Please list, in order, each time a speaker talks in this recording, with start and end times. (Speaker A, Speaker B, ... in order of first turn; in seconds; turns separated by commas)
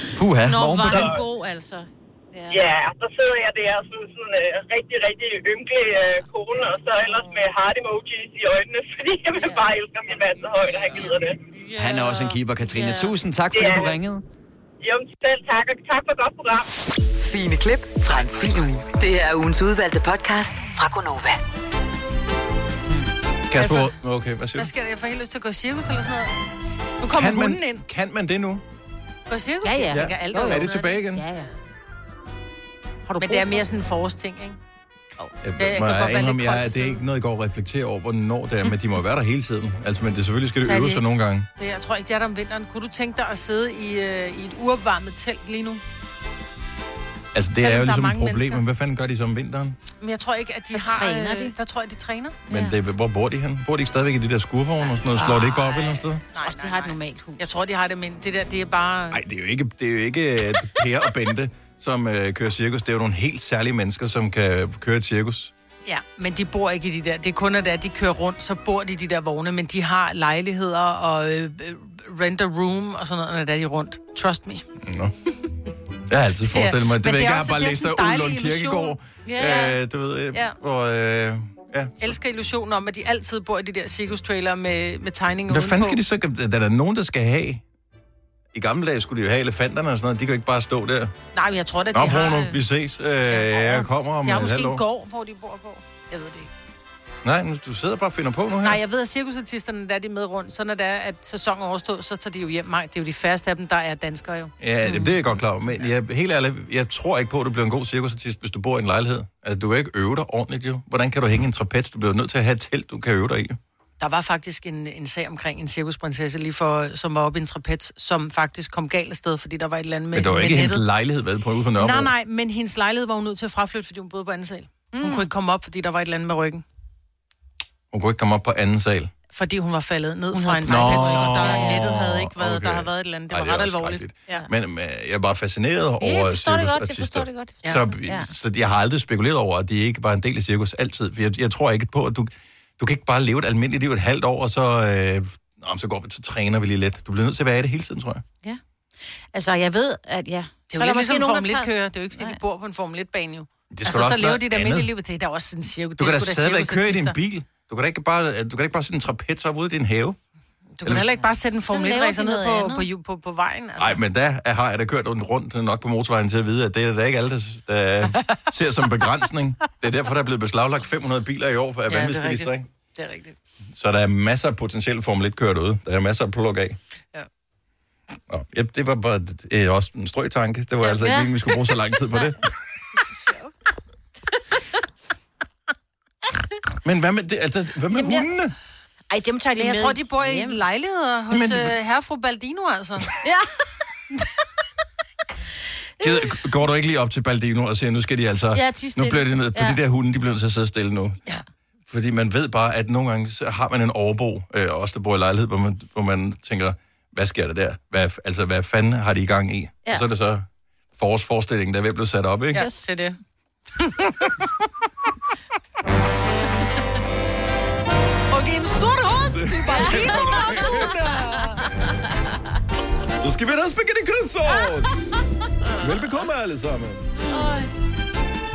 Speaker A: 0.1-1.1, Speaker B: 0.4-2.6, Speaker C: 2.5-11.4, Speaker B: 5.9-6.2, Speaker B: 9.4-9.6, Speaker B: 10.9-13.1, Speaker A: 11.8-14.2, Speaker C: 13.5-13.9, Speaker C: 14.8-16.6, Speaker D: 17.2-21.4, Speaker E: 23.5-24.7, Speaker F: 23.5-24.0, Speaker F: 24.5-26.3, Speaker F: 27.0-27.8, Speaker E: 27.1-28.6, Speaker F: 29.3-30.7, Speaker B: 29.6-31.5, Speaker E: 29.9-31.2, Speaker B: 33.1-33.6, Speaker F: 33.2-34.6, Speaker E: 35.4-41.5, Speaker F: 35.6-37.0, Speaker F: 40.6-41.0, Speaker F: 41.5-45.8, Speaker E: 47.3-49.8, Speaker F: 47.5-48.6, Speaker F: 50.0-52.4, Speaker B: 50.7-51.5, Speaker E: 52.5-56.2, Speaker B: 52.5-52.8, Speaker F: 54.9-59.2, Speaker B: 55.2-55.5, Speaker B: 56.4-57.5, Speaker E: 59.1-65.5, Speaker F: 65.8-74.7, Speaker E: 74.8-75.1, Speaker E: 76.1-82.0, Speaker F: 76.5-79.0, Speaker B: 79.2-79.8, Speaker F: 82.0-86.0, Speaker E: 85.5-87.6, Speaker E: 88.5-91.1, Speaker F: 91.3-92.6, Speaker E: 91.9-94.8, Speaker F: 93.3-96.5, Speaker E: 97.2-98.8, Speaker F: 98.6-105.2, Speaker E: 104.6-113.6, Speaker F: 114.0-120.8, Speaker E: 120.1-122.1, Speaker F: 121.8-126.6, Speaker B: 124.9-125.3, Speaker E: 127.9-129.1, Speaker F: 129.3-134.5, Speaker B: 130.3-131.9, Speaker E: 130.7-148.2, Speaker B: 136.0-138.3, Speaker F: 137.6-138.2, Speaker B: 149.3-152.4, Speaker F: 150.7-157.2, Speaker E: 153.7-154.9, Speaker E: 156.0-160.2, Speaker F: 160.8-164.0, Speaker E: 160.8-161.1, Speaker B: 161.7-162.9, Speaker E: 163.8-172.7, Speaker F: 168.1-168.4, Speaker F: 171.9-173.4, Speaker E: 173.7-176.8, Speaker E: 178.3-182.5, Speaker B: 180.8-181.3, Speaker B: 183.2-183.5, Speaker E: 186.8-188.5, Speaker B: 187.9-188.3, Speaker B: 189.1-190.6, Speaker F: 189.6-193.1, Speaker E: 191.3-191.7, Speaker B: 193.2-193.5, Speaker E: 196.0-201.2, Speaker B: 198.5-199.8, Speaker E: 201.9-212.7, Speaker F: 212.5-213.2, Speaker B: 212.6-213.0, Speaker F: 213.8-214.3, Speaker F: 218.3-221.7, Speaker E: 219.3-221.0, Speaker B: 219.7-220.9, Speaker E: 223.2-225.3, Speaker E: 225.8-227.1, Speaker B: 227.3-227.7